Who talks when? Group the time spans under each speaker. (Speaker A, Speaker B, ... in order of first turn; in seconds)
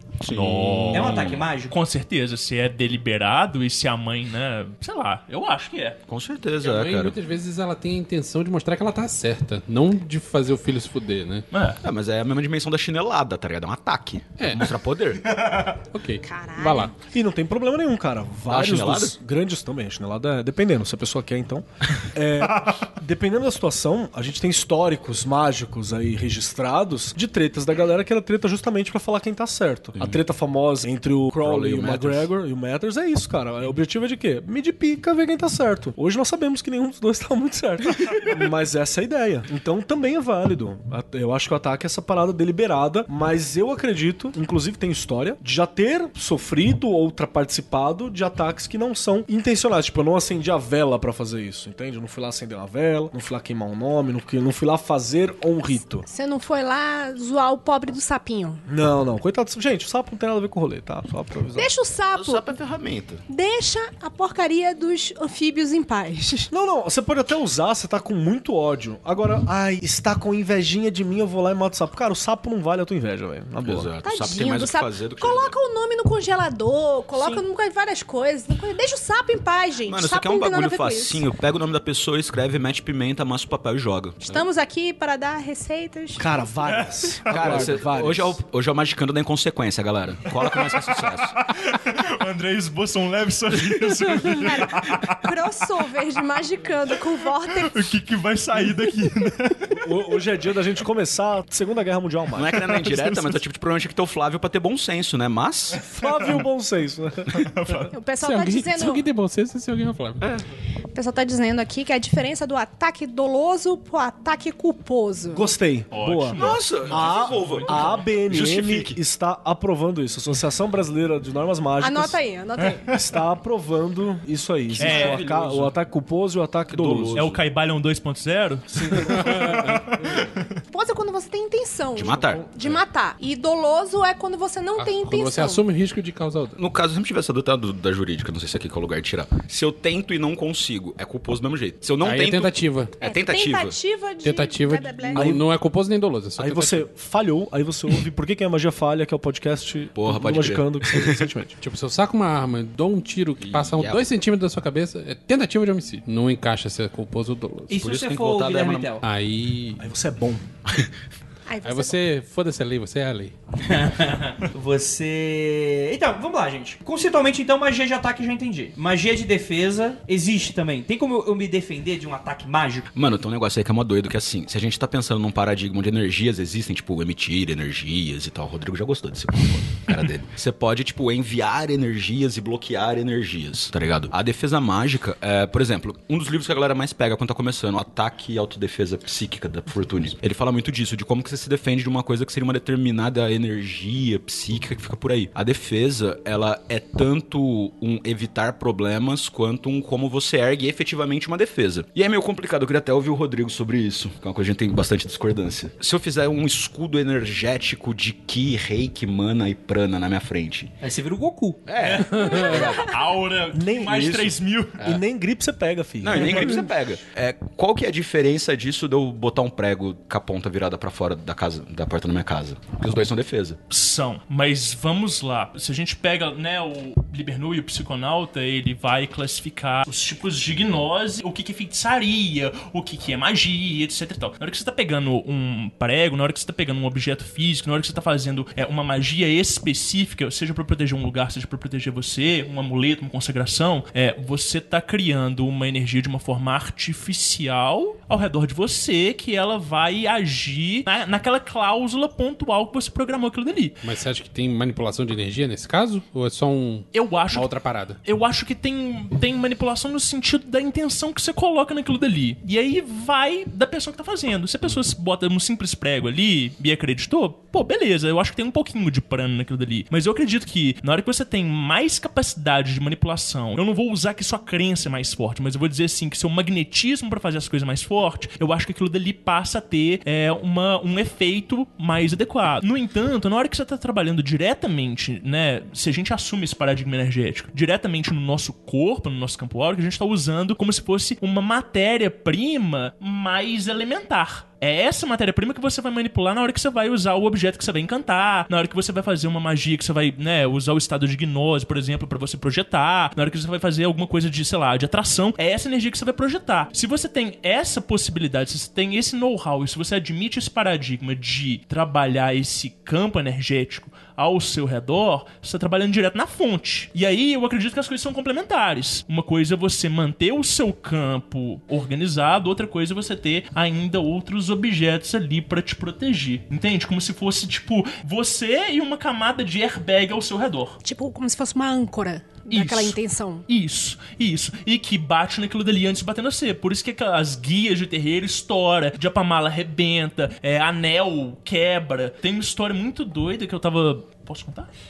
Speaker A: 0.2-1.5, 6.1-7.2, 11.8-15.4, 18.5-19.1, 31.4-32.3, 62.1-63.2, 73.6-75.6, 79.8-84.5, 87.3-91.4, 102.3-105.8, 116.4-119.0, 124.7-125.8, 126.7-127.4, 131.9-132.4, 136.6-143.8, 150.0-151.3, 153.4-154.1, 157.8-159.0, 160.7-161.0, 172.9-210.7, 211.7-213.0, 216.0-223.6
Speaker B: 0.2-6.0, 11.5-11.8, 15.4-15.7, 86.7-87.2, 90.4-95.3, 96.9-100.0, 102.5-103.4, 106.0-106.5, 107.3-107.9, 115.9-118.0, 124.8-125.2, 127.2-130.5, 211.8-214.8, 216.2-216.6, 223.7-253.8, 256.9-257.5, 258.1-330.8, 332.5-344.7
Speaker C: 0.6-1.1, 6.6-11.4, 14.4-14.7, 15.9-16.9, 108.2-110.2, 129.1-129.6, 134.8-136.6, 142.0-143.0, 144.2-146.8, 151.6-157.8, 159.0-159.8, 161.6-163.3, 212.1-212.6, 253.8-258.0
Speaker D: 0.9-1.8, 157.7-159.0, 163.6-172.9, 210.8-211.7
Speaker E: 16.2-17.0, 56.1-58.6, 61.5-62.6, 63.3-66.5, 74.0-81.2, 84.2-86.5, 94.0-97.9, 107.9-109.1, 110.9-115.5, 121.8-122.9, 130.7-135.6, 143.0-145.3, 161.5-162.0, 330.8-333.5
Speaker F: 17.1-56.1, 58.7-61.7, 66.5-73.9, 86.2-88.4, 99.7-102.6, 105.9-107.7, 115.3-122.2, 122.9-127.2, 128.7-130.0, 145.2-145.5, 146.4-151.6, 159.8-160.4, 213.5-216.6